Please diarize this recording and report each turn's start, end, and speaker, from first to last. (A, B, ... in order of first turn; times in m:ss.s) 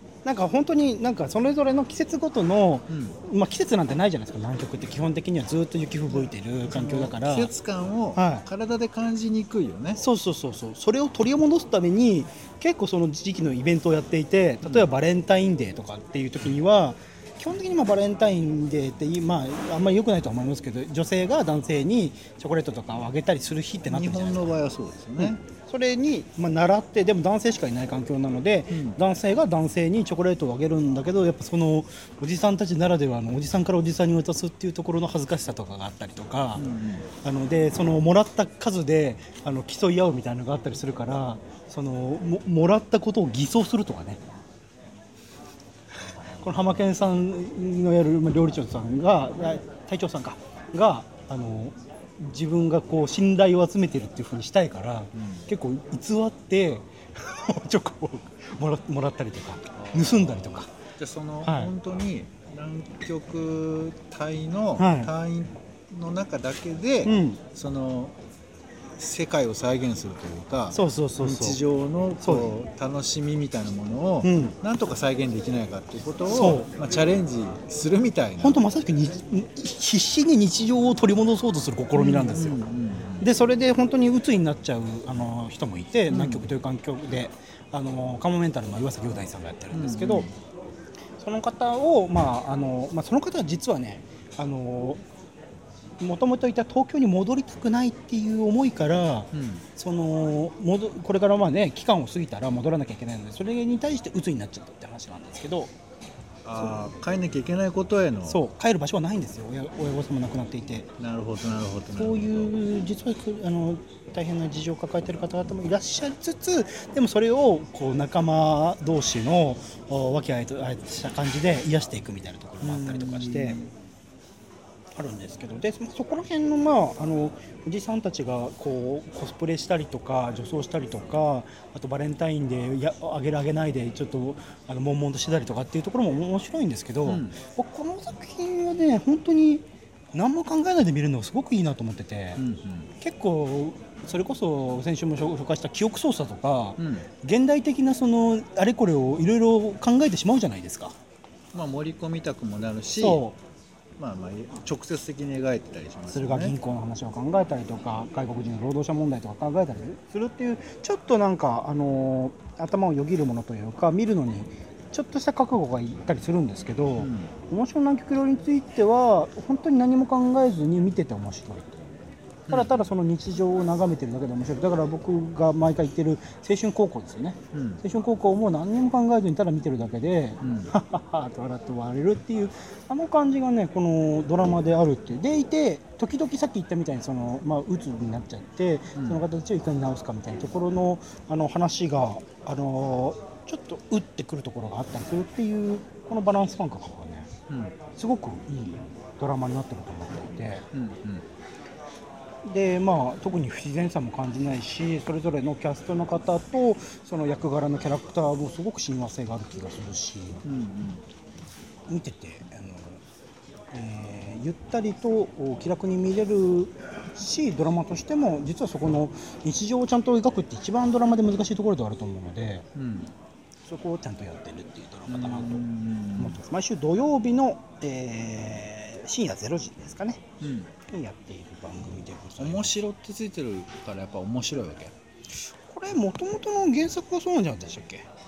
0:00.2-0:07.5 A
0:02.9-0:03.2 B
0:06.1-0:10.0 B
0:08.2-0:08.5 A
0:10.0-0:24.6 A
0:14.6-0:14.9 B
0:23.9-0:25.4 B
0:25.2-0:36.7 A
0:28.7-0:29.0 B
0:36.6-0:37.1 B
0:37.2-0:44.2 A
0:46.4-1:00.7 A
0:55.2-0:55.4 B
0:59.7-1:08.2 B
1:01.4-1:01.7 A
1:04.8-1:05.1 A
1:07.0-1:07.4 A
1:09.0-1:18.6 B
1:10.7-1:11.6 A
1:12.2-1:12.6 A
1:14.2-1:14.6 A
1:16.3-1:16.7 A
1:18.4-1:22.6 A
1:22.0-1:23.3 B
1:23.2-1:30.3 A
1:26.1-1:26.5 B
1:29.7-1:30.4 B
1:31.2-1:35.0 A
1:36.0-1:45.7 A
1:39.3-1:39.6 B
1:46.4-1:48.5 B
1:48.3-1:50.9 A
1:51.0-1:52.5 B
1:51.9-2:03.6 A
2:02.6-2:03.7 B
2:05.0-2:22.4 A
2:17.0-2:17.4 B
2:22.4-2:22.9 B
2:23.0-2:31.0 A
2:26.8-2:27.1 B
2:31.5-2:33.2 B
2:33.0-2:33.4 A
2:34.0-2:36.6 B
2:36.1-2:51.9 A
2:47.0-2:47.3 B
2:52.5-2:52.9 B
2:52.5-3:17.3 A
2:57.5-2:57.8 B
3:00.4-3:00.7 B
3:09.0-3:09.2 B
3:17.5-3:17.8 B
3:18.0-3:20.7 A
3:20.7-3:21.2 B
3:22.4-3:30.4 A
3:30.4-3:31.0 B
3:31.9-3:33.0 A
3:33.7-3:42.7 A
3:42.8-3:43.1 B
3:43.7-3:50.2 A
3:45.1-3:46.4 B
3:50.4-3:50.7 B
3:50.9-3:52.8 A
3:52.4-3:54.9 B
3:55.7-3:58.1 A